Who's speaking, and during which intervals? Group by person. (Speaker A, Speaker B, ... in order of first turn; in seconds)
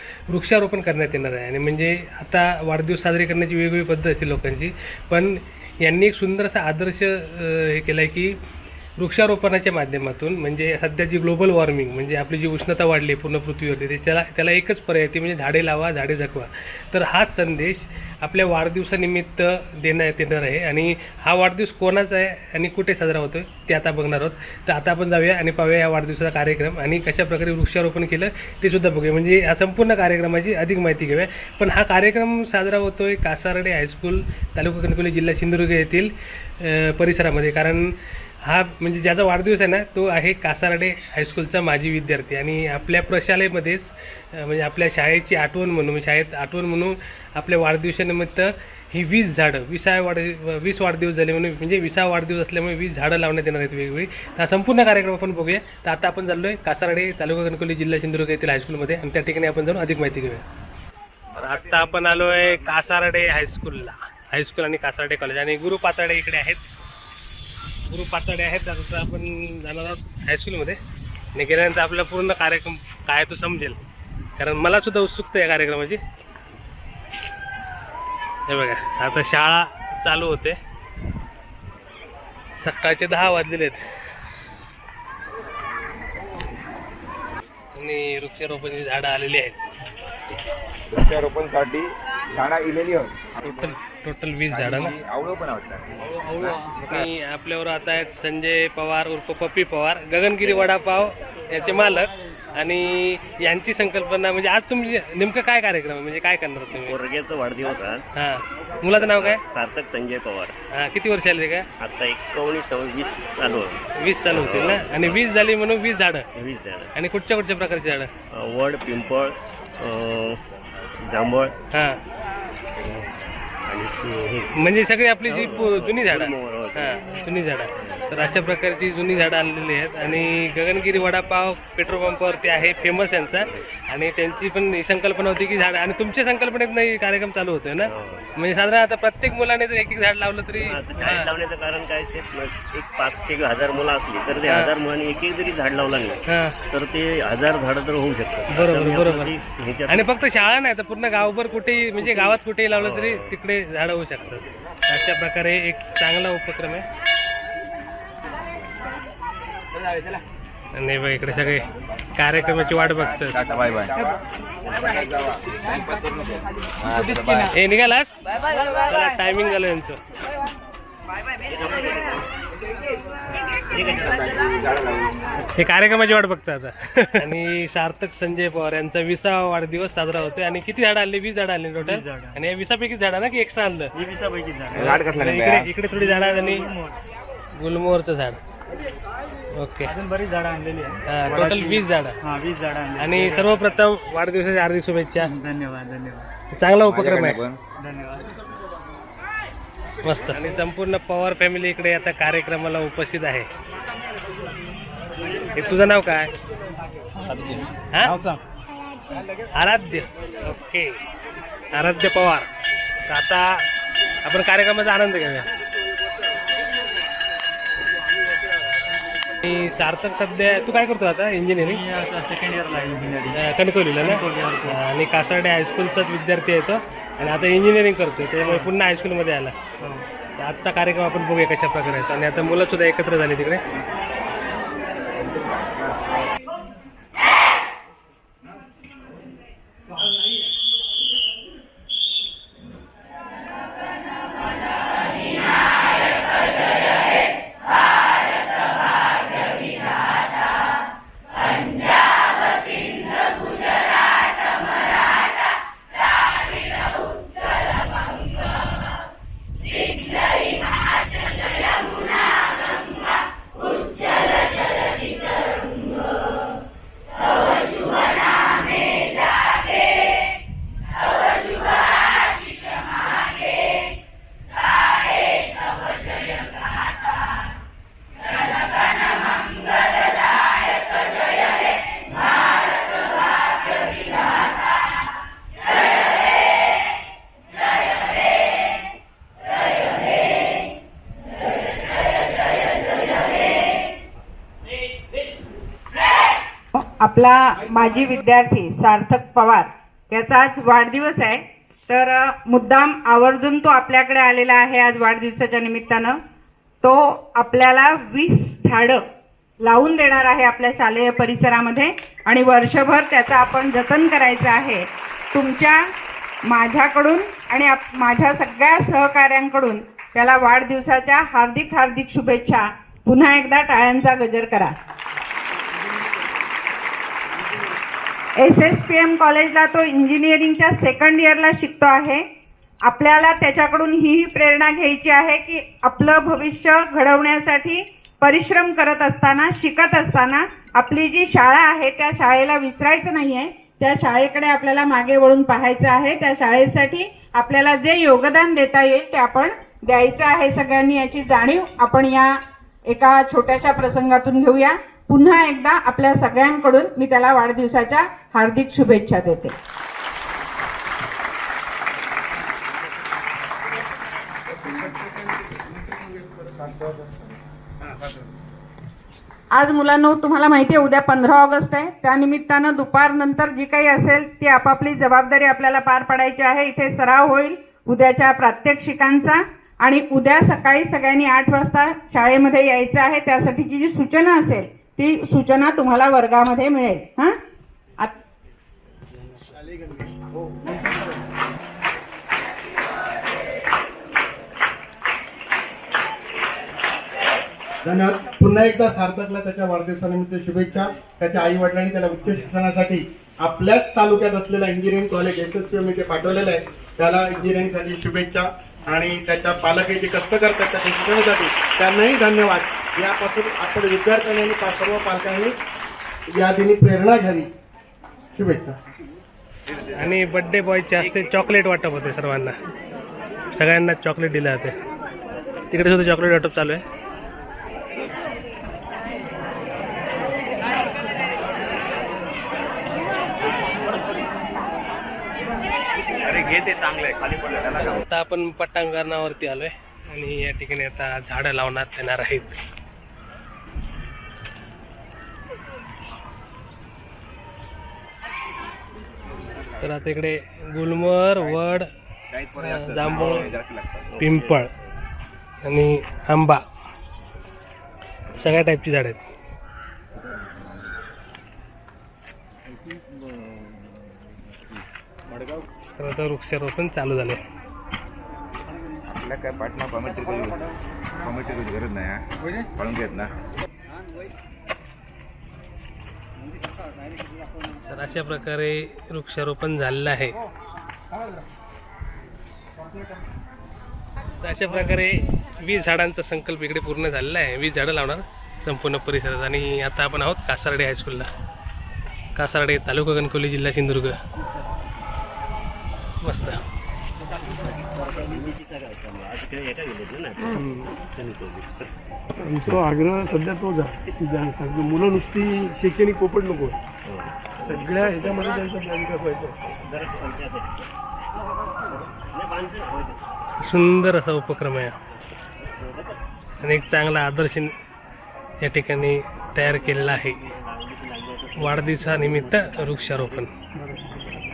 Speaker A: 0.3-8.3, 9.0-60.4, 61.4-66.6, 67.8-70.8, 71.3-73.8, 74.4-76.0, 78.5-80.6, 82.6-83.8, 87.7-89.6, 93.4-94.9, 96.8-107.0, 108.1-109.4, 110.7-111.7, 114.0-116.3, 116.9-118.1, 121.7-122.0, 124.5-141.3, 146.3-146.6, 148.5-149.3, 149.9-156.8, 160.7-163.4, 167.4-170.0, 175.6-183.9, 184.8-186.7, 187.6-188.4, 189.6-189.9, 191.1-192.2, 193.0-195.3, 196.5-197.4, 200.0-203.5, 205.5-206.3, 207.9-208.2, 209.5-210.9, 211.7-212.5, 213.1-213.6, 214.2-215.5, 219.4-221.8, 223.3-229.5, 230.4-233.6, 419.9-422.6, 423.5-424.8, 425.7-426.8, 437.8-442.6, 449.8-451.9, 452.6-453.5, 454.2-454.7, 455.6-456.6, 458.3-459.2, 466.0-467.4, 477.9-480.4, 484.4-491.3, 492.3-494.2, 496.2-496.6, 513.6-514.9, 516.6-517.7, 518.6-520.5, 521.6-523.5
Speaker B: 61.3-62.8, 90.9-93.7, 94.5-97.1, 162.4-167.5, 173.9-175.3, 184.7-185.7, 196.8-197.6, 436.2-438.0, 449.5-449.9, 451.3-451.6, 452.3-454.1, 469.1-473.3
Speaker C: 106.7-108.0, 108.9-110.5, 111.8-115.2, 116.3-116.9, 118.3-120.4, 121.0-121.5, 123.7-124.5, 125.2-127.2, 137.8-138.2, 140.6-150.1, 152.0-153.3, 171.4-172.2, 173.6-174.4, 454.1-454.8, 497.4-501.9, 507.0-508.6, 509.7-510.9, 511.6-513.3, 515.6-516.2, 520.0-523.4
Speaker D: 181.8-182.4, 183.9-184.9, 185.9-187.0, 189.8-193.5, 195.2-196.3, 197.8-198.3, 208.1-208.4, 221.6-223.4, 224.0-224.8, 228.4-228.7, 229.8-230.1
Speaker E: 296.7-306.2, 306.8-309.0, 309.6-315.8, 316.5-324.7, 328.4-332.2, 332.8-359.5, 369.5-387.3
Speaker F: 397.8-415.5, 416.3-417.5, 418.4-418.8
Speaker G: 500.5-500.9, 502.4-506.8, 507.6-509.5, 523.8-524.3